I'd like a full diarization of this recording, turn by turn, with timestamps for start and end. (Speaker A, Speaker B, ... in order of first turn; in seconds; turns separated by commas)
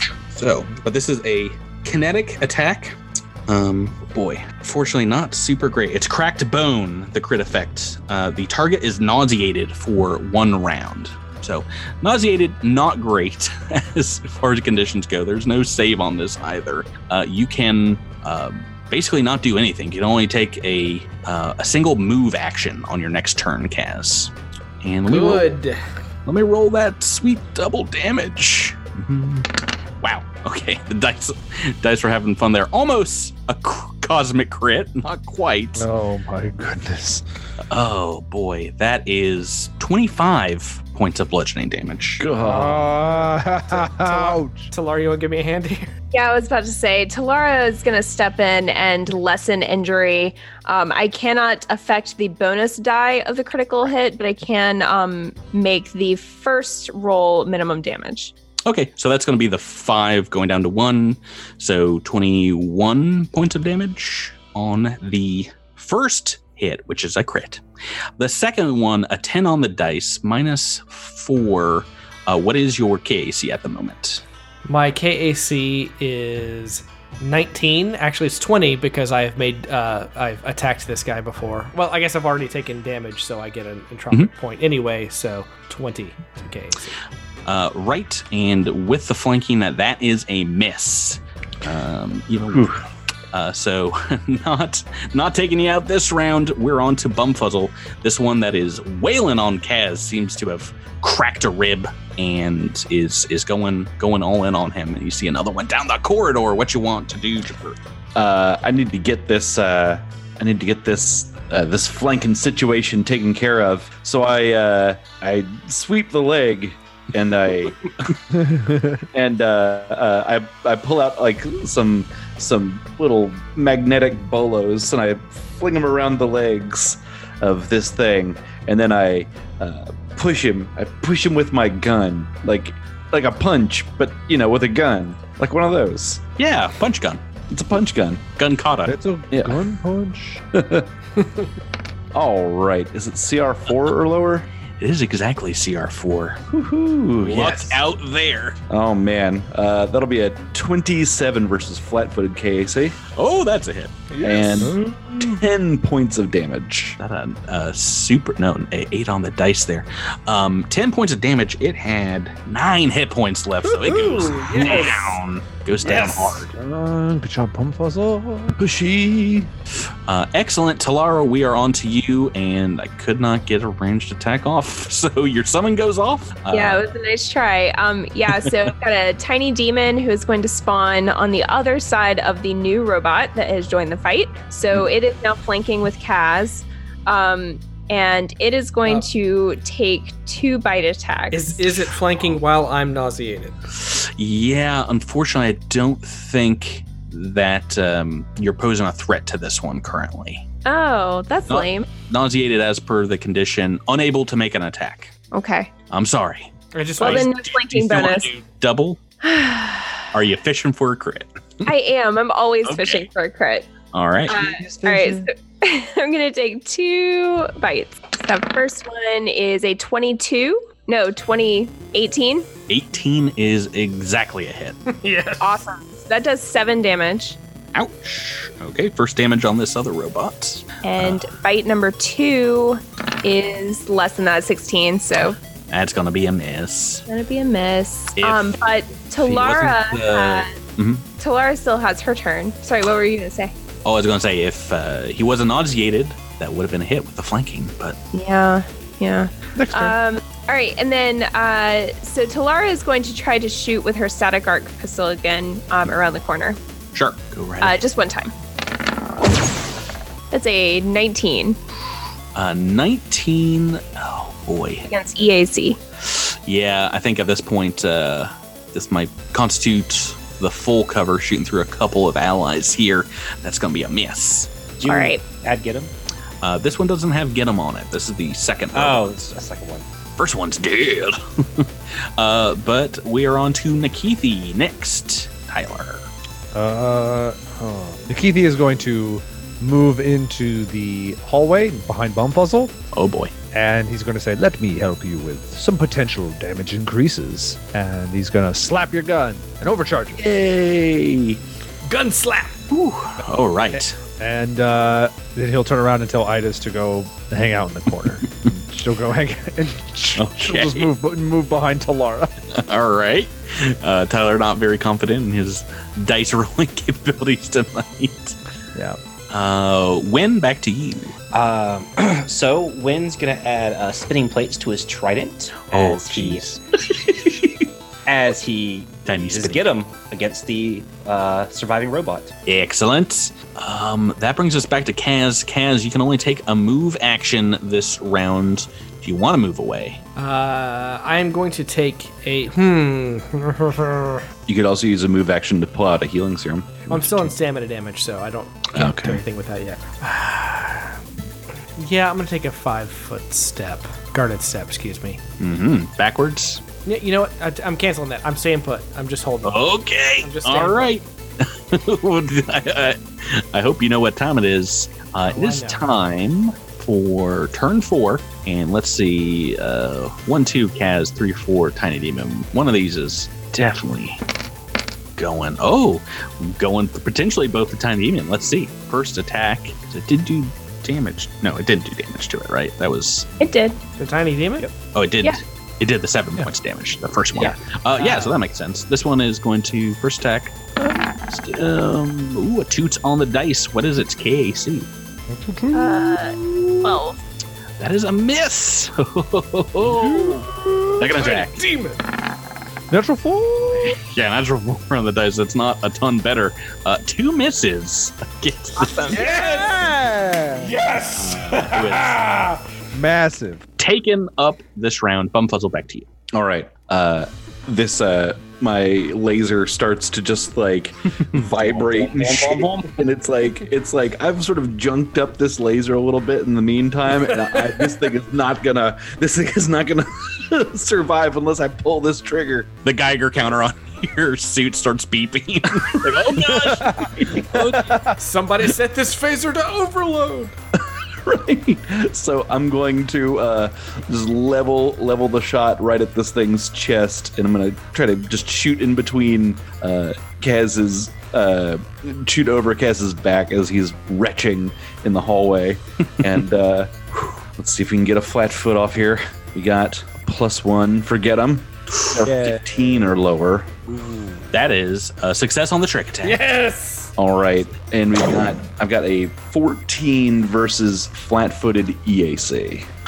Speaker A: 0.3-25.6, Speaker B: 25.1-25.8, Speaker A: 26.3-29.5, Speaker A: 30.0-35.9, Speaker C: 35.8-37.2, Speaker A: 37.7-42.2, Speaker D: 42.2-43.0, Speaker C: 42.4-44.7, Speaker B: 43.0-45.9, Speaker E: 46.1-58.3, Speaker A: 58.7-67.6, Speaker A: 68.2-74.2, Speaker B: 74.6-87.0, Speaker A: 87.5-92.7, Speaker A: 93.3-107.8, Speaker D: 108.1-117.8, Speaker C: 118.4-119.0, Speaker D: 119.1-136.2, Speaker A: 136.4-137.2, Speaker D: 137.5-138.2, Speaker A: 138.4-138.9, Speaker C: 138.9-140.4, Speaker D: 139.3-139.6, Speaker D: 140.5-140.9, Speaker D: 142.1-144.5, Speaker A: 144.8-146.4, Speaker D: 146.5-147.8, Speaker A: 147.2-148.6, Speaker D: 148.7-153.0, Speaker A: 153.1-154.1, Speaker B: 154.1-154.4, Speaker D: 154.2-157.0, Speaker C: 154.6-155.4, Speaker A: 157.0-166.5, Speaker B: 163.9-165.2, Speaker C: 165.8-168.6, Speaker D: 168.6-169.5, Speaker A: 170.1-176.8, Speaker E: 176.5-191.6, Speaker B: 191.3-193.6, Speaker A: 193.8-200.4, Speaker E: 200.6-201.9, Speaker A: 201.5-205.1, Speaker E: 205.3-205.7, Speaker A: 205.9-209.0, Speaker B: 206.7-207.3, Speaker E: 207.0-208.3, Speaker E: 209.2-210.1, Speaker A: 210.1-211.7, Speaker E: 211.6-213.7, Speaker A: 212.6-213.1, Speaker A: 213.9-214.4, Speaker E: 214.3-222.5, Speaker C: 214.3-215.3, Speaker A: 222.7-224.8, Speaker B: 224.9-225.6, Speaker E: 225.4-227.4, Speaker A: 227.7-231.2, Speaker E: 230.8-235.4, Speaker A: 235.7-237.0, Speaker E: 237.1-240.5, Speaker A: 238.2-238.6, Speaker A: 239.1-241.1, Speaker E: 241.2-243.5, Speaker A: 243.8-248.0, Speaker E: 248.1-256.6, Speaker C: 249.6-249.9, Speaker A: 256.9-257.8, Speaker E: 257.6-258.3, Speaker E: 260.3-261.6, Speaker A: 262.4-264.9, Speaker E: 264.9-265.8, Speaker A: 266.0-274.5, Speaker F: 274.8-275.9, Speaker E: 274.9-275.2, Speaker A: 276.4-279.1, Speaker F: 278.7-279.9, Speaker A: 280.2-286.1, Speaker C: 286.5-292.7, Speaker A: 292.9-293.3, Speaker C: 293.5-300.2, Speaker A: 300.2-301.4, Speaker B: 301.9-302.6, Speaker A: 302.7-304.0, Speaker C: 303.7-312.3, Speaker A: 310.2-310.9, Speaker A: 312.6-318.4, Speaker A: 319.3-321.1, Speaker F: 321.3-326.4, Speaker A: 325.7-326.6, Speaker F: 328.1-332.3, Speaker A: 329.1-329.6, Speaker A: 332.4-340.0, Speaker B: 340.2-344.2, Speaker D: 344.5-347.3, Speaker B: 346.9-350.9, Speaker A: 348.8-349.2, Speaker B: 351.8-355.2, Speaker A: 355.4-356.6, Speaker B: 356.9-359.6, Speaker A: 359.4-374.2, Speaker B: 360.2-361.0, Speaker B: 365.3-365.8, Speaker A: 375.2-383.3, Speaker E: 383.4-383.8, Speaker B: 384.0-384.7, Speaker A: 384.9-394.9, Speaker B: 387.4-388.4, Speaker C: 395.3-396.6, Speaker E: 395.7-397.2, Speaker A: 397.8-400.4, Speaker C: 400.0-400.4, Speaker B: 400.1-402.0, Speaker A: 401.0-401.6, Speaker C: 402.9-404.0, Speaker A: 403.9-409.5, Speaker B: 408.8-409.9, Speaker C: 409.1-410.8, Speaker B: 410.6-412.6, Speaker A: 411.2-412.2, Speaker C: 412.9-413.6, Speaker A: 413.8-416.1, Speaker D: 416.3-432.7, Speaker F: 421.6-422.8, Speaker B: 427.4-427.9, Speaker A: 432.8-437.9, Speaker C: 436.6-437.1, Speaker B: 437.8-440.6, Speaker D: 441.2-463.7, Speaker C: 462.2-463.1, Speaker C: 463.9-464.4, Speaker A: 464.5-466.4, Speaker B: 466.2-467.1, Speaker D: 467.2-472.9